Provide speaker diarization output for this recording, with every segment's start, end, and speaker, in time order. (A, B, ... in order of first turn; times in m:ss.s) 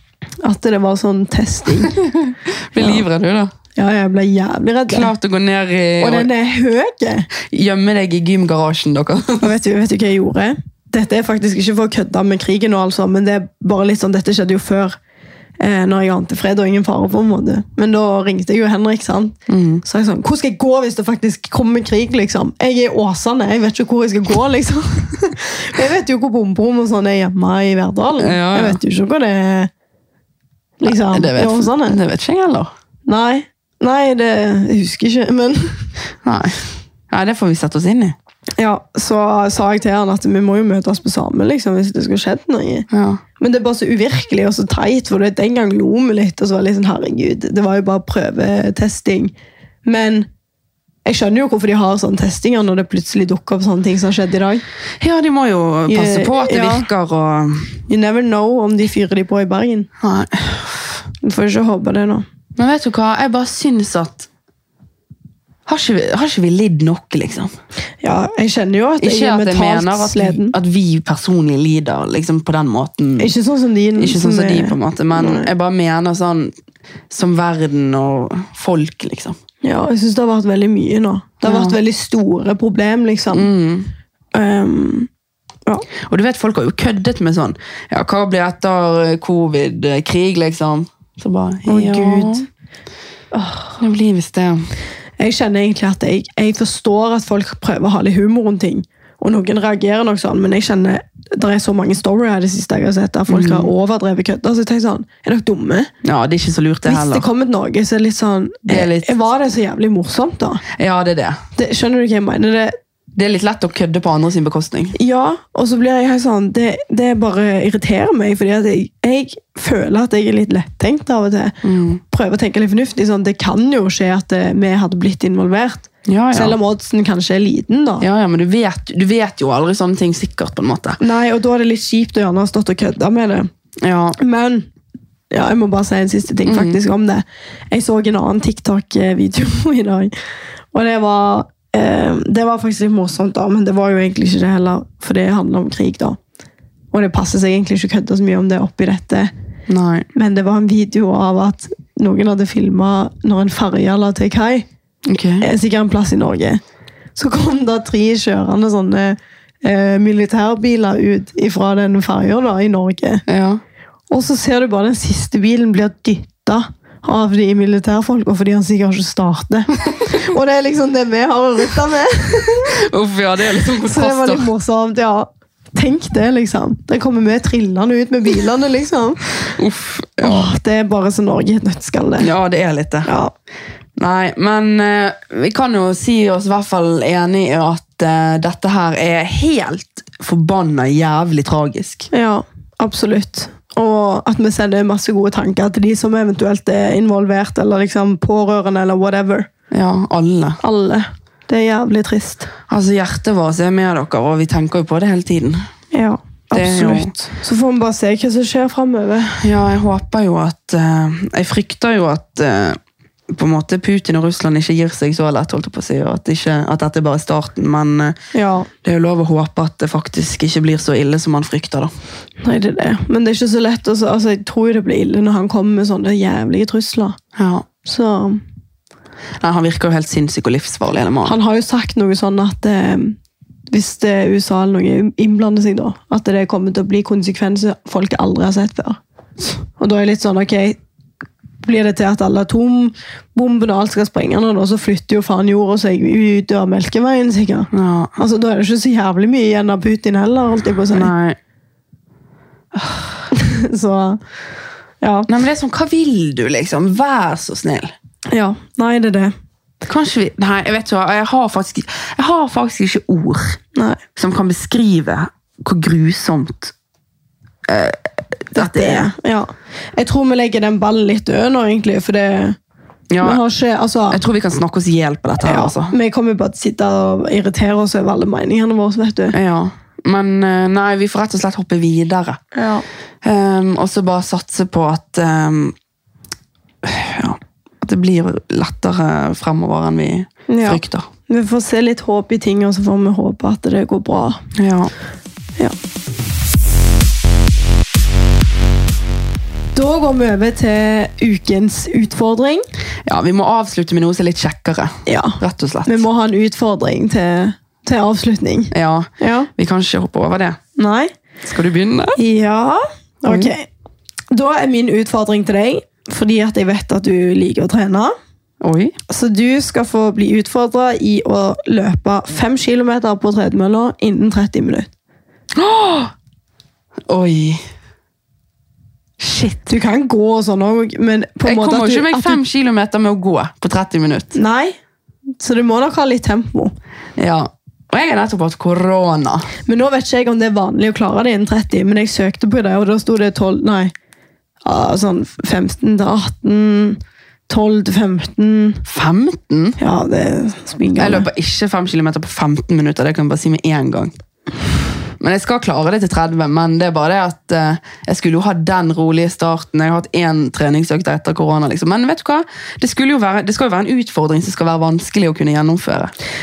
0:00.4-0:01.9 A
0:01.8-0:03.5 B
0:02.8-0:03.0 A
0:03.8-0:05.1 A
0:04.9-0:06.3 B
0:06.0-0:07.3 A
0:07.4-0:09.6 B
0:09.4-0:15.0 A
0:15.6-0:29.7 A
0:19.5-0:19.8 B
0:28.2-0:28.8 B
0:30.8-0:32.0 A
0:30.9-0:32.7 B
0:33.1-0:35.8 A
0:36.2-0:38.2 B
0:38.6-0:42.9 A
0:42.9-0:43.2 B
0:43.4-0:49.3 A
0:49.9-0:50.3 A
0:51.0-0:54.6 A
0:55.0-0:57.8 B
0:55.9-0:56.9 A
0:57.9-0:59.9 A
1:00.0-1:01.0 B
1:01.2-1:02.2 A
1:02.6-1:04.3 B
1:05.7-1:07.5 B
1:08.0-1:10.6 A
1:09.0-1:13.3 B
1:13.2-1:15.5 A
1:14.0-1:16.5 B
1:17.1-1:19.4 B
1:19.6-1:23.5 A
1:21.4-1:21.8 B
1:23.3-1:23.9 B
1:24.3-1:25.1 A
1:26.1-1:32.4 B
1:31.7-1:32.4 A
1:33.3-1:33.8 A
1:33.8-1:34.7 B
1:35.2-1:45.9 A
1:43.3-1:43.7 B
1:46.0-1:47.3 B
1:46.9-1:50.6 A
1:48.7-1:49.1 B
1:50.7-1:51.4 B
1:51.6-1:52.8 A
1:53.2-1:55.0 B
1:55.0-2:01.6 A
2:01.6-2:02.0 B
2:02.1-2:08.0 A
2:06.1-2:06.6 B
2:08.0-2:11.0 B
2:11.0-2:13.5 A
2:13.8-2:14.2 B
2:14.2-2:14.7 A
2:15.3-2:20.1 A
2:16.5-2:16.8 B
2:20.7-2:26.2 A
2:26.9-2:29.3 A
2:29.7-2:30.1 B
2:30.1-2:34.7 A
2:35.1-2:35.5 B
2:35.4-2:36.6 A
2:37.2-2:43.2 A
2:43.3-2:43.6 B
2:44.1-2:52.7 A
2:52.7-2:54.5 B
2:53.9-2:59.3 A
2:59.4-3:00.5 B
3:00.2-3:02.3 A
3:02.2-3:03.1 B
3:03.0-3:03.3 A
3:04.0-3:12.1 B
3:12.1-3:19.5 A
3:19.7-3:20.6 B
3:20.6-3:22.5 A
3:22.7-3:25.6 B
3:25.9-3:29.4 A
3:26.5-3:27.1 B
3:29.4-3:32.8 B
3:33.3-3:38.1 B
3:38.3-3:38.7 A
3:38.8-3:41.9 B
3:42.4-3:47.2 A
3:47.4-3:47.7 B
3:47.8-3:48.4 A
3:49.4-3:51.4 B
3:51.2-3:53.2 A
3:53.7-3:59.0 A
3:59.8-4:00.8 A
4:01.6-4:11.1 A
4:07.7-4:08.1 B
4:10.9-4:11.4 B
4:13.3-4:14.2 A
4:15.0-4:15.3 A
4:15.3-4:17.9 B
4:18.3-4:19.3 A
4:19.8-4:23.6 B
4:23.8-4:24.0 A
4:24.2-4:26.7 B
4:27.7-4:29.1 B
4:28.6-4:32.6 A
4:33.1-4:33.4 B
4:33.2-4:34.2 A
4:34.1-4:35.9 B
4:35.4-4:39.4 A
4:39.3-4:42.4 B
4:42.5-4:42.8 A
4:43.2-4:45.8 B
4:46.8-4:51.1 B
4:50.5-4:54.4 A
4:54.6-4:54.9 B
4:59.8-5:02.6 A
5:03.1-5:06.0 B
5:05.1-5:09.5 A
5:08.7-5:10.6 B
5:10.8-5:11.1 A
5:11.4-5:12.2 B
5:12.2-5:13.7 A
5:13.3-5:13.5 B
5:14.3-5:18.1 A
5:18.6-5:19.0 B
5:19.1-5:24.9 A
5:25.6-5:26.1 B
5:27.1-5:27.6 B
5:29.2-5:29.6 B
5:29.7-5:32.4 A
5:31.4-5:34.4 B
5:34.3-5:34.8 A
5:35.4-5:36.7 A
5:37.2-5:39.5 B
5:39.7-5:43.9 A
5:44.6-5:48.8 A
5:48.8-5:49.8 B
5:49.8-5:51.3 A
5:51.0-5:54.2 B
5:55.2-6:06.1 B